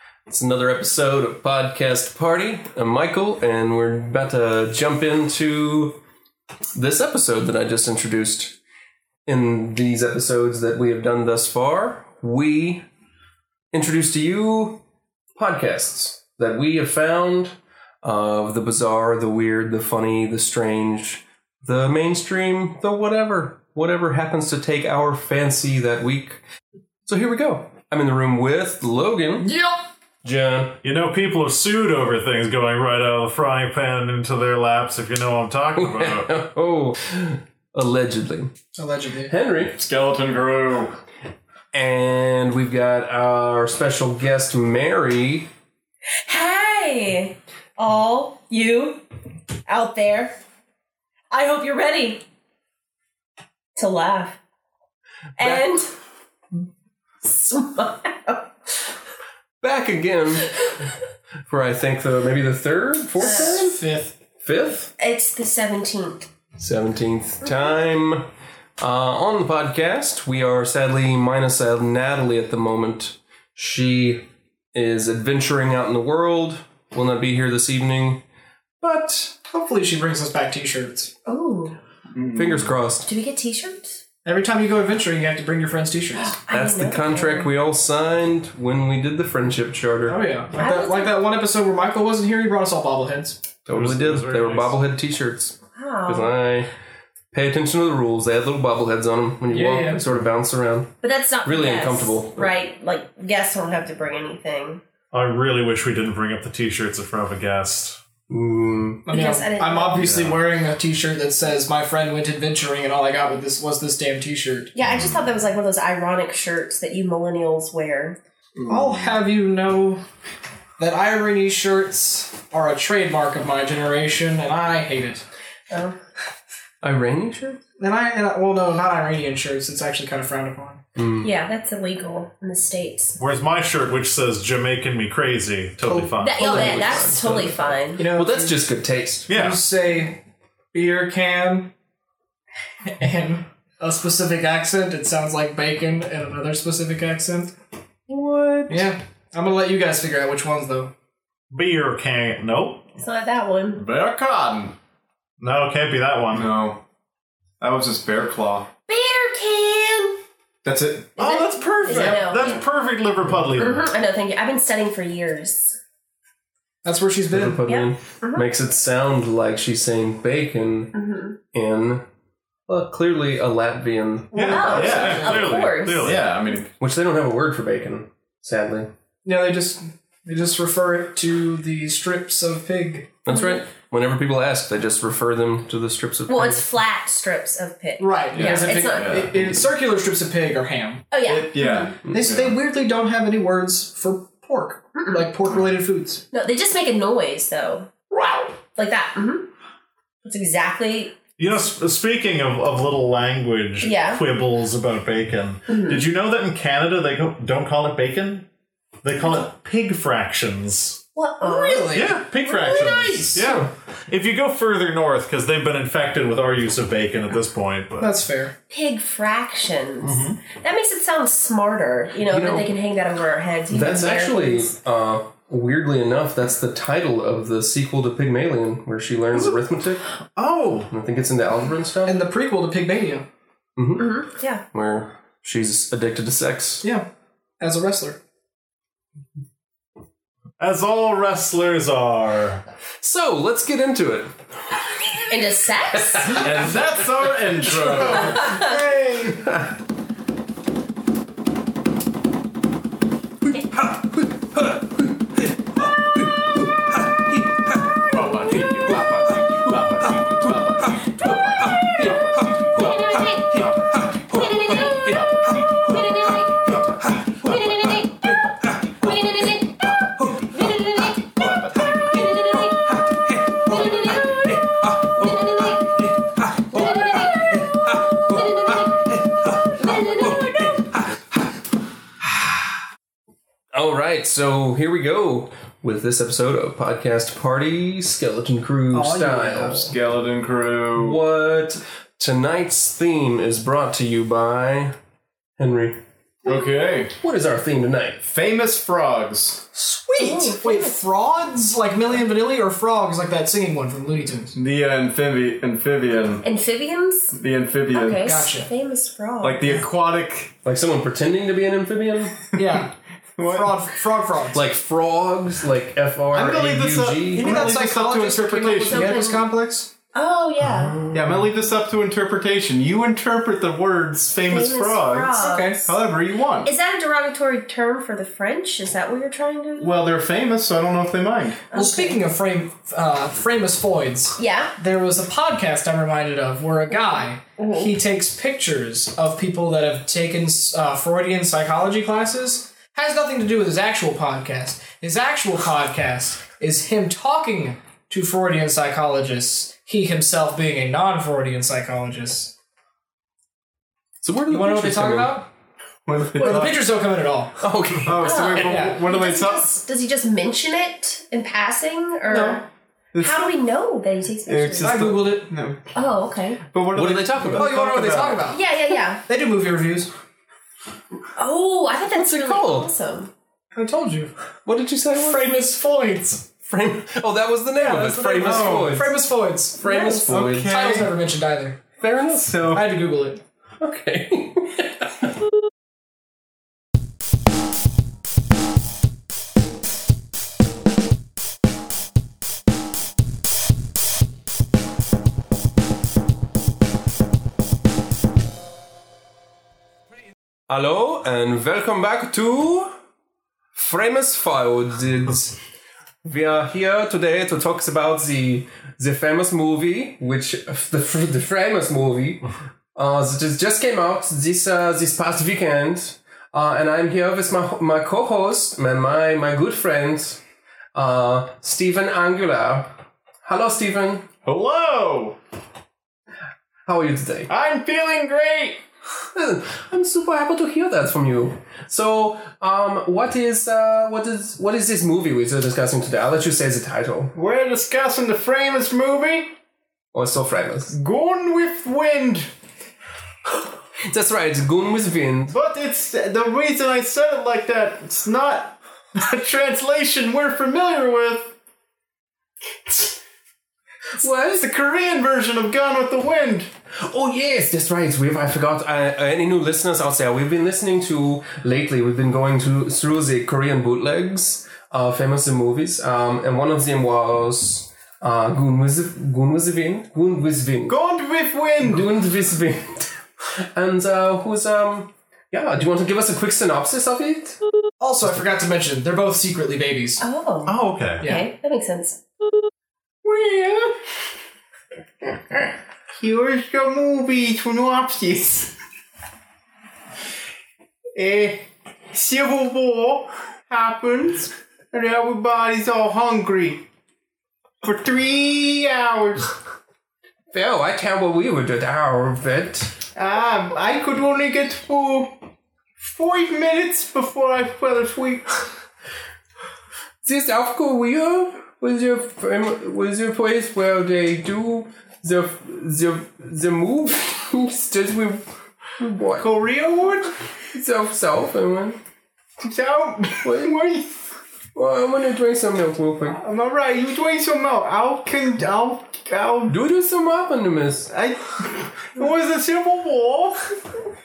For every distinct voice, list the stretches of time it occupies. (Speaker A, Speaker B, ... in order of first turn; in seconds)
Speaker A: 0.3-6.0, 6.7-8.6, 9.2-12.8, 13.7-14.8, 15.3-26.4, 27.1-29.5, 30.2-30.8, 35.8-38.5, 39.2-39.8, 41.7-45.5, 59.6-60.6, 61.5-63.8, 64.4-64.9, 66.6-78.2, 78.8-79.3, 82.3-83.1, 86.5-90.2, 93.7-96.7, 97.3-100.9, 101.4-102.5, 108.3-109.1, 126.8-127.6, 130.9-131.3, 136.3-139.3, 148.1-148.9, 167.3-170.9, 171.5-172.0, 172.7-175.4, 176.8-178.9, 183.2-186.7, 213.3-213.7, 222.3-222.7, 223.7-230.1, 230.9-232.2, 233.8-236.8, 243.0-244.3, 246.1-246.4, 283.7-289.9, 291.0-294.9, 295.6-296.0, 297.2-298.3, 310.6-312.4, 314.5-317.7, 320.8-321.3, 354.2-355.4, 357.6-358.3, 366.9-368.2, 372.1-372.9, 374.6-375.7, 376.6-379.2, 379.8-380.9, 382.0-382.7, 383.8-385.3, 400.7-402.9, 403.7-405.6, 406.2-420.4, 420.9-424.3, 426.9-427.5, 429.3-437.3, 440.1-441.0, 444.0-445.5, 454.2-454.6, 456.9-470.9, 471.8-477.6, 500.5-502.9, 510.2-518.4, 519.0-519.5, 520.7-522.0, 523.4-523.8, 524.7-526.4, 529.7-531.1
Speaker B: 29.4-29.9, 38.8-39.3, 63.2-64.1, 79.5-81.1, 84.2-86.3, 90.1-93.4, 99.5-100.0, 109.1-114.7, 118.7-120.0, 120.8-125.2, 127.8-130.8, 135.8-137.0, 138.0-138.6, 139.3-140.2, 140.7-141.7, 142.8-147.5, 148.7-150.9, 166.8-167.6, 179.2-183.1, 188.0-191.0, 192.1-196.2, 211.4-213.5, 218.0-218.5, 232.0-233.2, 237.6-238.2, 247.8-249.3, 288.9-289.9, 299.7-304.5, 308.2-308.7, 312.5-314.6, 317.3-319.9, 325.4-325.9, 331.7-352.5, 354.5-355.5, 356.3-357.6, 358.6-359.0, 364.8-365.5, 367.5-368.6, 369.3-370.1, 373.7-374.3, 375.1-376.4, 377.8-379.8, 380.6-381.8, 382.7-383.4, 478.0-480.2, 481.2-481.4
Speaker C: 30.8-36.3, 93.7-94.8, 105.1-108.0, 110.0-110.3, 133.2-136.6, 139.3-139.6, 151.5-152.8, 155.4-156.5, 161.2-163.8, 174.3-176.3, 201.4-208.5, 209.0-211.0, 211.9-218.2, 220.0-220.4, 229.3-229.6, 230.3-230.9, 240.6-242.6, 480.6-481.2
Speaker D: 39.8-41.0, 82.1-82.7, 118.6-119.2, 153.7-154.8, 156.3-156.8, 157.6-158.7, 160.6-162.2, 174.5-175.3, 176.0-176.7, 188.3-189.6, 191.2-192.6, 246.3-248.8, 258.1-262.9, 263.5-264.4, 271.6-272.2, 289.8-291.2, 296.4-297.1, 298.3-299.6, 304.5-306.4, 307.3-308.4, 309.4-310.5, 313.4-313.8, 316.3-319.3, 321.1-326.7, 329.8-331.6, 356.1-356.9, 358.0-359.8, 363.1-363.5, 364.5-365.8, 366.7-368.5, 378.4-379.1, 380.2-381.2, 382.3-382.9, 424.4-425.4, 427.5-428.8, 437.3-439.5, 440.9-442.5, 445.5-451.5, 454.5-456.7, 470.9-472.1, 483.2-483.9, 486.1-488.7, 491.1-496.8, 497.8-499.5, 503.1-505.4, 506.0-508.5, 519.3-520.3, 522.6-524.2, 526.4-529.8, 531.1-533.8
Speaker E: 46.2-49.0, 49.7-50.3, 51.3-52.2, 53.8-54.4, 55.4-55.9, 57.2-58.5, 63.2-63.5, 65.0-66.3, 81.2-81.8, 83.0-84.0, 86.1-87.5, 90.5-91.2, 95.8-96.3, 101.0-104.8, 109.1-110.0, 114.7-118.2, 125.7-126.0, 131.2-133.2, 136.2-138.1, 153.0-153.8, 158.9-160.2, 161.2-162.6, 163.6-165.8, 167.7-168.4, 170.9-171.3, 174.3-176.2, 183.3-183.6, 186.3-189.2, 191.1-191.9, 194.9-195.3, 196.3-199.5, 200.2-201.2, 203.8-204.2, 205.7-206.0, 211.2-212.0, 218.7-224.7, 234.0-234.6, 245.3-246.6, 248.0-248.8, 262.7-263.7, 264.3-266.8, 267.3-273.0, 273.6-279.1, 279.7-280.9, 300.2-301.0, 306.4-307.4, 307.9-309.8, 318.9-319.5, 320.1-320.9, 324.4-325.7, 326.6-329.9, 331.7-332.2, 334.4-334.7, 337.6-337.9, 358.2-362.6, 363.2-365.0, 365.9-366.6, 368.5-369.2, 371.4-373.3, 379.8-380.3, 480.2-482.2